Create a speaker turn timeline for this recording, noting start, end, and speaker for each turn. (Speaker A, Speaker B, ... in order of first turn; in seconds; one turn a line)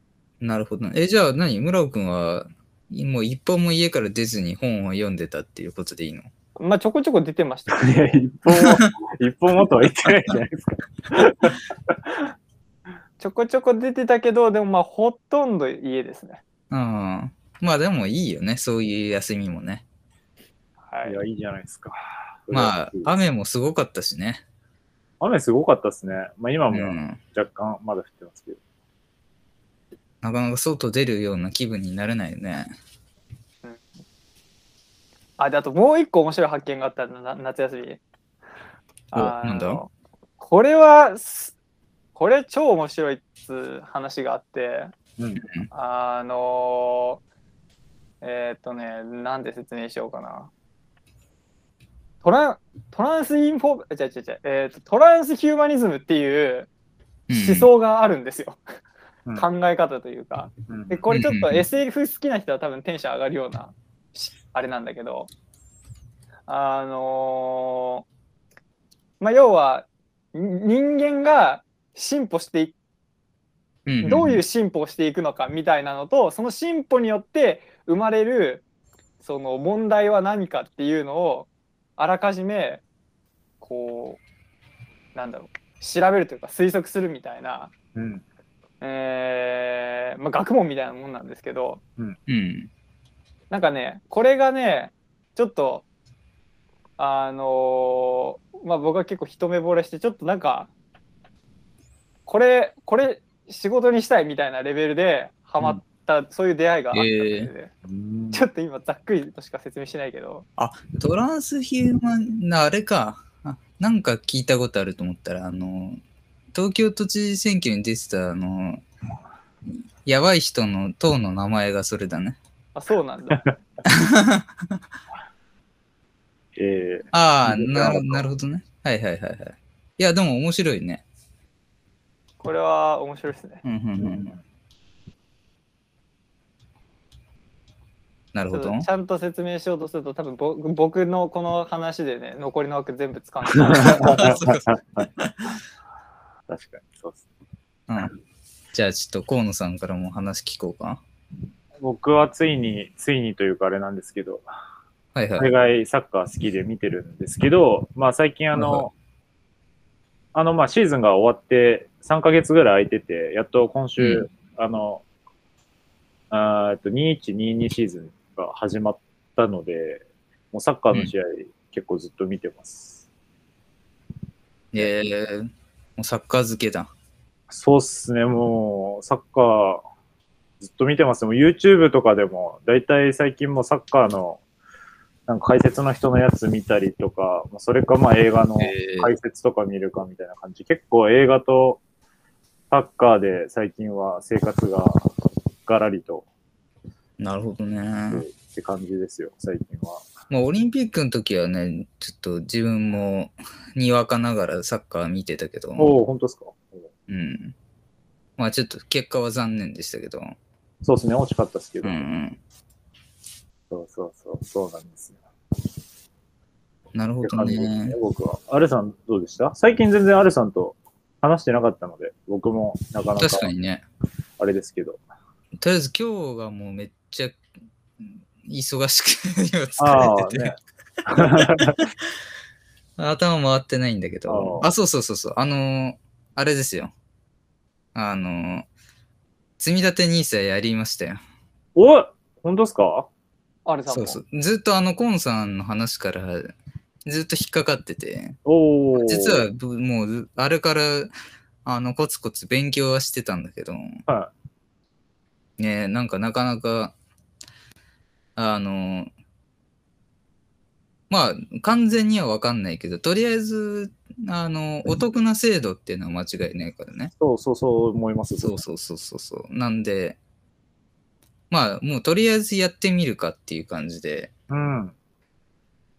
Speaker A: 0.4-6.3
Speaker B: 6.6-8.1
Speaker C: 7.7-12.2
Speaker A: 8.5-8.9
Speaker B: 13.2-16.4
Speaker A: 16.7-19.8
Speaker B: 20.9-21.2
Speaker C: 21.0-23.1
Speaker A: 22.5-24.4
Speaker C: 25.2-28.6
Speaker A: 26.7-27.2
Speaker A: 30.2-32.7
Speaker B: 35.4-38.0
Speaker B: 39.1-41.5
Speaker A: 39.1-39.8
Speaker B: 42.1-44.9
Speaker C: 45.2-45.4
Speaker A: 45.4-45.7
Speaker B: 45.7-47.2
Speaker B: 48.2-50.5
Speaker B: 52.2-56.7
Speaker A: 57.3-57.7
Speaker B: 57.3-58.6
Speaker B: 59.4-65.3
Speaker C: 60.7-61.0
Speaker A: 61.1-61.6
Speaker B: 66.5-68.0
Speaker B: 69.2-72.8
Speaker A: 73.9-74.4
Speaker B: 74.0-78.6
Speaker B: 79.2-82.8
Speaker B: 83.6-84.2
Speaker B: 85.2-87.7
Speaker C: 88.0-88.2
Speaker B: 88.8-91.8
Speaker A: 92.3-92.7
Speaker B: 93.5-95.8
Speaker B: 97.0-100.7
Speaker B: 102.3-107.7
Speaker A: 106.9-107.5
Speaker C: 107.8-108.4
Speaker B: 108.3-110.5
Speaker A: 110.6-116.0
Speaker A: 116.5-118.8
Speaker A: 120.0-122.4
Speaker B: 122.8-123.5
Speaker A: 123.9-124.8
Speaker C: 126.6-128.3
Speaker A: 127.1-131.0
Speaker B: 132.4-133.6
Speaker A: 133.7-134.4
Speaker C: 134.0-134.4
Speaker A: 138.3-138.9
Speaker B: 138.5-144.3
Speaker C: 143.7-145.1
Speaker A: 143.8-145.5
Speaker C: 146.5-147.2
Speaker A: 147.9-148.2
Speaker A: 148.7-151.0
Speaker C: 151.8-154.4
Speaker A: 155.2-155.5
Speaker C: 155.4-158.9
Speaker A: 158.5-158.9
Speaker C: 160.3-165.0
Speaker A: 164.0-164.3
Speaker C: 166.3-173.1
Speaker A: 174.7-176.9
Speaker C: 177.5-179.8
Speaker C: 180.6-184.4
Speaker C: 185.3-191.8
Speaker A: 188.6-189.1
Speaker C: 192.7-195.1
Speaker C: 195.6-196.3
Speaker A: 197.2-198.2
Speaker C: 198.1-200.1
Speaker A: 200.3-205.9
Speaker C: 205.8-206.9
Speaker A: 207.1-207.6
Speaker A: 208.4-210.3
Speaker C: 210.8-212.1
Speaker A: 211.8-212.4
Speaker C: 213.7-215.2
Speaker A: 216.9-217.9
Speaker C: 217.2-223.5
Speaker A: 223.2-223.8
Speaker C: 224.4-225.0
Speaker A: 225.6-227.4
Speaker A: 228.0-231.9
Speaker C: 229.8-231.8
Speaker A: 233.0-236.9
Speaker C: 234.3-234.7
Speaker A: 237.9-238.7
Speaker A: 239.6-241.2
Speaker C: 241.8-243.1
Speaker B: 243.7-244.2
Speaker A: 243.9-246.5
Speaker A: 247.1-248.4
Speaker C: 248.4-249.5
Speaker A: 248.9-251.1
Speaker A: 251.7-254.0
Speaker A: 255.6-256.9
Speaker A: 258.4-259.1
Speaker A: 261.1-267.1
Speaker C: 267.2-268.6
Speaker A: 268.4-270.2
Speaker A: 271.5-274.3
Speaker C: 274.5-274.9